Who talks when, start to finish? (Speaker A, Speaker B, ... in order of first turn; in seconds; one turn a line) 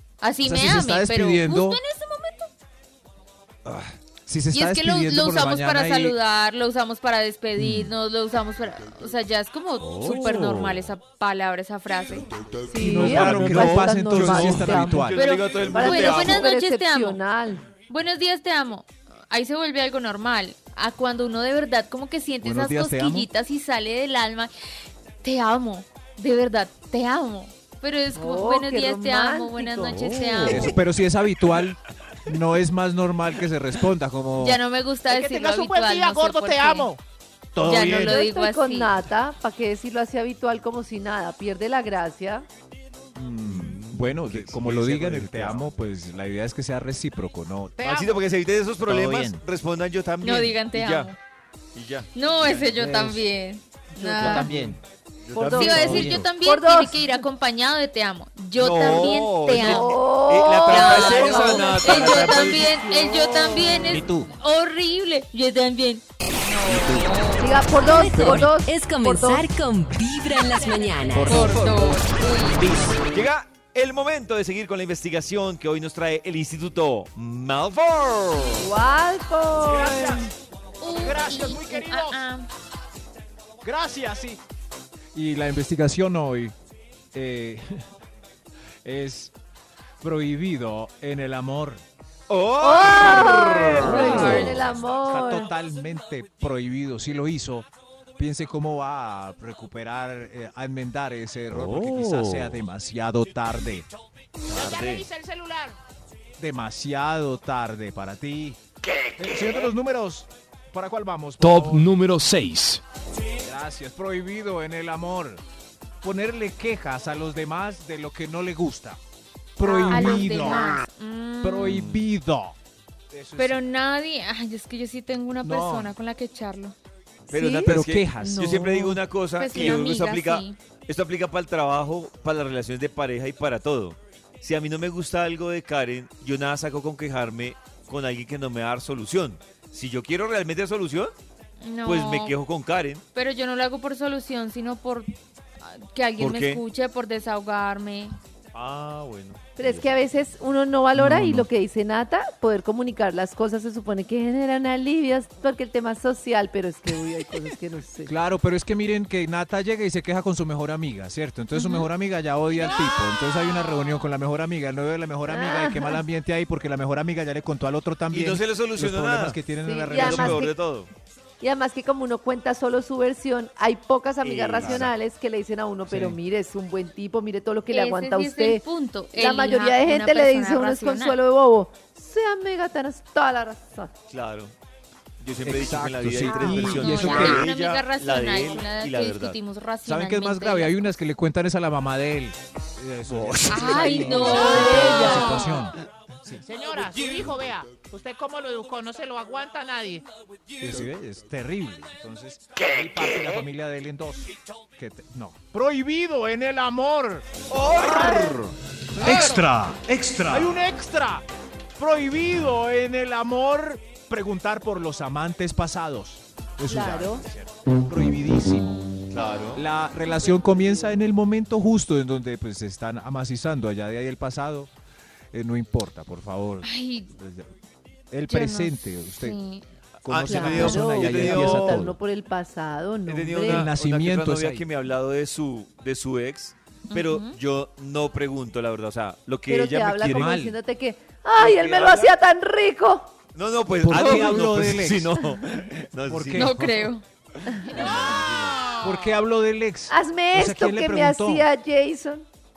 Speaker A: 0.2-2.5
Speaker B: 0.4-1.8
Speaker B: 3.7-6.2
Speaker A: 4.5-12.3
Speaker B: 7.6-7.9
Speaker C: 9.8-10.9
Speaker D: 12.7-15.1
Speaker B: 12.7-15.2
Speaker E: 13.0-16.5
Speaker A: 15.2-17.2
Speaker D: 15.7-17.6
Speaker A: 17.9-24.5
Speaker B: 22.4-23.3
Speaker A: 25.2-30.8
Speaker D: 28.1-30.5
Speaker C: 29.9-30.7
Speaker B: 30.4-34.6
Speaker A: 34.4-36.9
Speaker F: 35.1-37.0
Speaker B: 37.5-38.2
Speaker A: 37.6-38.9
Speaker D: 37.6-42.5
Speaker B: 43.1-47.8
Speaker E: 43.5-45.7
Speaker F: 47.8-48.3
Speaker E: 47.8-51.1
Speaker F: 48.9-49.4
Speaker A: 50.2-51.2
Speaker E: 51.7-53.0
Speaker A: 52.1-54.5
Speaker B: 52.8-53.2
Speaker D: 54.0-54.5
Speaker E: 54.2-54.7
Speaker F: 54.2-54.8
Speaker B: 54.5-54.8
Speaker E: 55.3-56.2
Speaker D: 55.3-57.2
Speaker A: 55.5-59.9
Speaker E: 58.6-62.7
Speaker D: 59.5-64.0
Speaker A: 60.7-67.6
Speaker F: 64.0-64.3
Speaker D: 67.4-69.5
Speaker G: 67.7-71.4
Speaker A: 71.2-73.0
Speaker E: 71.3-72.0
Speaker B: 71.3-71.9
Speaker B: 72.6-72.9
Speaker E: 73.0-78.7
Speaker D: 78.6-80.3
Speaker B: 79.7-80.3
Speaker A: 80.8-82.5
Speaker B: 80.9-82.3
Speaker B: 83.6-84.4
Speaker B: 85.1-86.5
Speaker B: 87.1-87.9
Speaker B: 88.8-89.3
Speaker B: 90.0-91.8
Speaker E: 92.3-94.7
Speaker D: 92.6-95.5
Speaker B: 93.0-103.9
Speaker C: 94.0-94.5
Speaker C: 101.5-102.6
Speaker E: 104.5-105.1
Speaker F: 104.5-105.8
Speaker B: 106.4-108.6
Speaker B: 109.2-111.9
Speaker C: 111.4-112.8
Speaker B: 113.4-115.4
Speaker B: 116.0-119.0
Speaker B: 119.6-120.7
Speaker D: 119.7-120.2
Speaker A: 119.8-121.9
Speaker B: 121.4-122.5
Speaker E: 121.7-122.1
Speaker B: 123.1-123.6
Speaker A: 123.4-126.8
Speaker B: 125.4-125.9
Speaker D: 127.3-128.9
Speaker E: 127.3-141.1
Speaker B: 127.7-129.0
Speaker A: 129.4-130.6
Speaker A: 141.6-142.3
Speaker E: 141.8-143.0
Speaker A: 143.2-145.1
Speaker A: 145.6-148.2
Speaker E: 146.2-146.6
Speaker E: 148.5-149.9
Speaker D: 149.6-158.1
Speaker B: 150.9-151.5
Speaker B: 158.1-170.4
Speaker D: 165.3-166.0
Speaker E: 168.1-170.9
Speaker D: 169.7-170.6
Speaker D: 171.4-178.6
Speaker E: 174.2-174.9
Speaker B: 174.6-174.9
Speaker B: 175.9-176.2
Speaker A: 177.7-181.2
Speaker D: 179.1-183.9
Speaker E: 184.1-184.5
Speaker E: 185.2-189.4
Speaker B: 185.4-187.5
Speaker A: 186.3-190.9
Speaker B: 189.9-196.4
Speaker E: 193.1-194.3
Speaker A: 193.5-195.4
Speaker D: 194.1-195.4
Speaker F: 195.0-195.4
Speaker F: 196.4-200.1
Speaker B: 200.6-209.6
Speaker E: 207.5-210.5
Speaker F: 209.1-209.4
Speaker B: 210.3-211.2
Speaker B: 211.8-218.8
Speaker D: 216.7-217.2
Speaker E: 219.1-219.6
Speaker B: 219.6-224.7
Speaker B: 225.3-227.5
Speaker A: 226.6-227.1
Speaker B: 228.1-229.4
Speaker A: 228.3-229.7
Speaker E: 230.1-231.9
Speaker B: 230.1-232.0
Speaker D: 230.3-233.7
Speaker E: 233.1-240.4
Speaker B: 233.4-234.7
Speaker A: 236.9-237.4
Speaker D: 239.5-243.1
Speaker B: 240.0-240.6
Speaker E: 241.4-242.1
Speaker E: 243.3-246.5
Speaker B: 243.8-245.2
Speaker B: 246.1-246.9
Speaker A: 246.3-247.0
Speaker E: 247.3-248.6
Speaker D: 247.6-247.8
Speaker B: 248.8-251.5
Speaker D: 249.9-252.3